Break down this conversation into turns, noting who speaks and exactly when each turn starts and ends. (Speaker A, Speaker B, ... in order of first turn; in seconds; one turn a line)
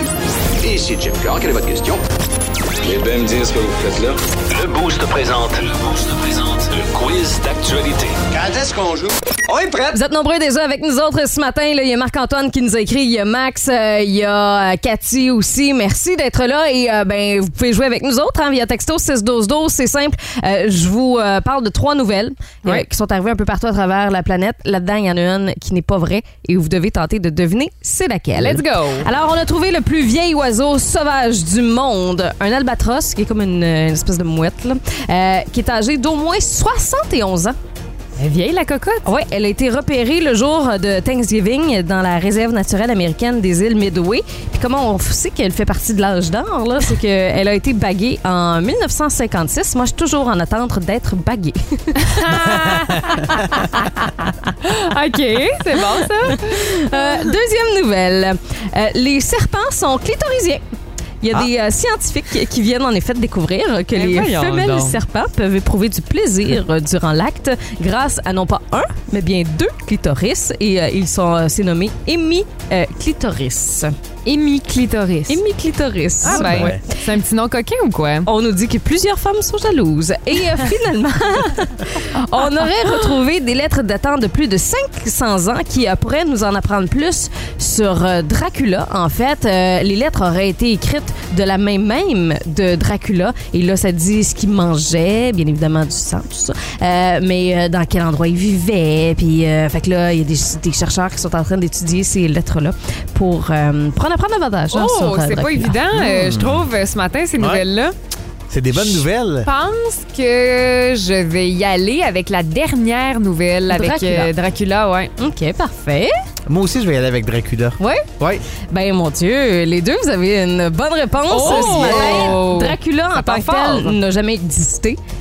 Speaker A: 0.7-1.4
Speaker B: 0.8-2.0
Speaker B: 2.8-4.2
Speaker A: 4.5-8.2
Speaker B: 8.3-10.0
Speaker C: 9.9-37.6
Speaker D: 28.4-29.1
Speaker D: 38.2-39.1
Speaker C: 39.0-52.7
Speaker D: 52.0-54.1
Speaker D: 54.6-57.3
Speaker C: 56.2-60.6
Speaker C: 61.2-73.9
Speaker D: 64.0-65.0
Speaker D: 74.2-75.4
Speaker C: 75.3-76.8
Speaker D: 76.2-78.3
Speaker E: 76.3-76.8
Speaker C: 78.3-105.8
Speaker D: 104.7-107.9
Speaker E: 105.9-106.7
Speaker E: 107.4-107.6
Speaker E: 108.5-109.5
Speaker D: 108.8-115.1
Speaker C: 113.7-114.3
Speaker C: 115.2-116.1
Speaker E: 116.5-118.5
Speaker C: 118.7-125.0
Speaker D: 121.3-124.0
Speaker E: 121.4-122.4